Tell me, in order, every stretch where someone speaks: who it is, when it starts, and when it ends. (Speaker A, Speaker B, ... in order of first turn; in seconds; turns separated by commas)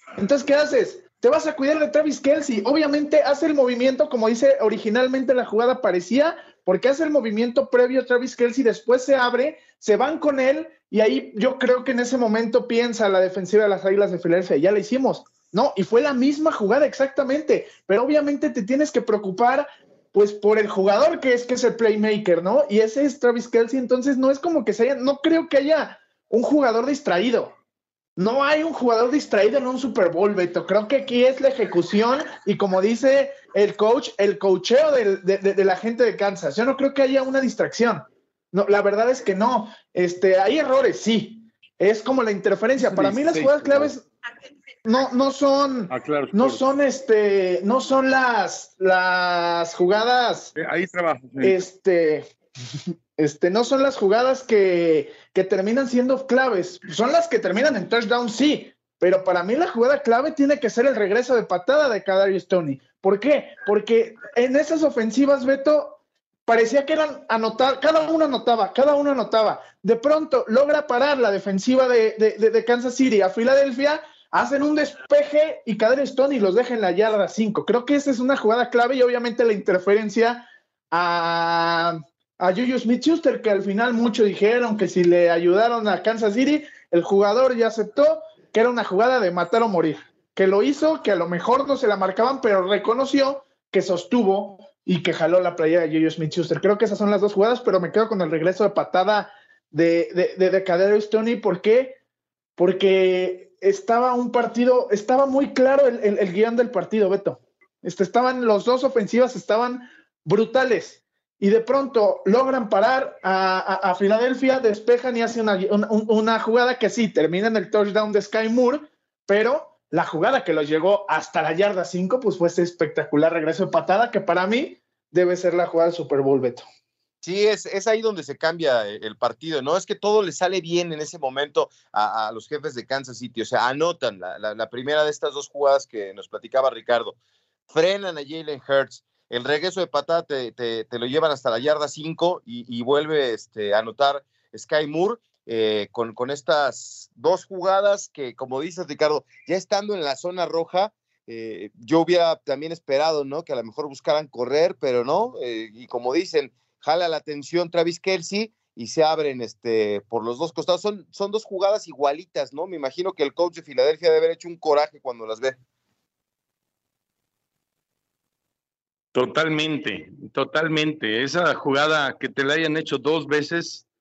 Speaker A: 0.2-27.5, Speaker A: 28.2-44.0, Speaker B: 42.8-43.9, Speaker A: 44.8-50.5, Speaker B: 45.9-46.6, Speaker B: 50.5-51.6, Speaker A: 51.4-52.3, Speaker A: 53.2-102.0, Speaker A: 102.6-126.6, Speaker C: 127.2-137.2, Speaker C: 137.7-165.6, Speaker B: 169.1-173.8